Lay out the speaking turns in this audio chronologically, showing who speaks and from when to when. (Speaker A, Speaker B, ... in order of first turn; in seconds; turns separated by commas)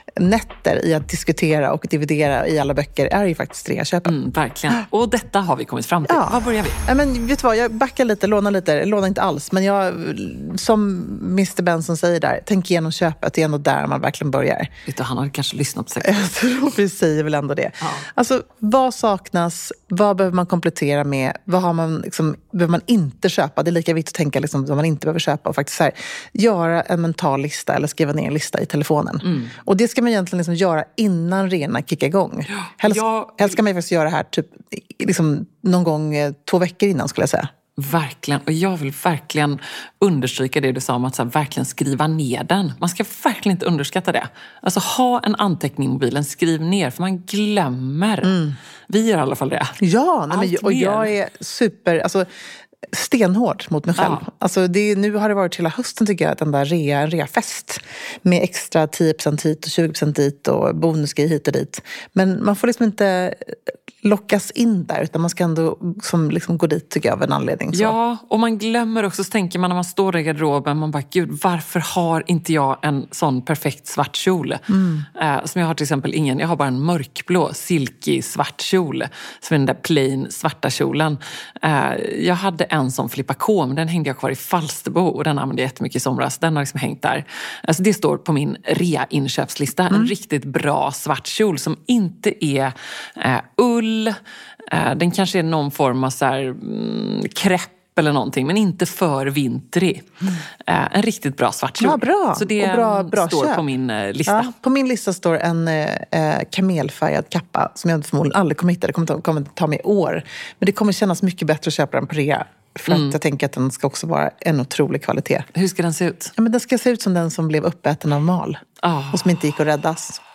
Speaker A: 0.1-4.2, Speaker B: 4.0-6.8, Speaker A: 6.0-14.7, Speaker B: 14.9-16.3, Speaker A: 16.0-37.5, Speaker B: 17.8-18.1, Speaker B: 29.2-29.5, Speaker B: 32.5-33.6, Speaker B: 37.8-48.4, Speaker A: 48.2-48.5, Speaker B: 48.9-49.8, Speaker A: 49.8-52.3, Speaker B: 50.3-51.1, Speaker A: 52.9-68.0, Speaker B: 54.0-54.2, Speaker B: 67.7-74.6, Speaker A: 74.7-75.1, Speaker B: 75.2-94.2, Speaker B: 94.7-100.0, Speaker B: 100.7-104.5, Speaker A: 101.8-103.6, Speaker A: 104.3-115.5, Speaker B: 112.9-113.2, Speaker B: 115.5-116.3, Speaker A: 116.4-120.2, Speaker B: 118.8-119.2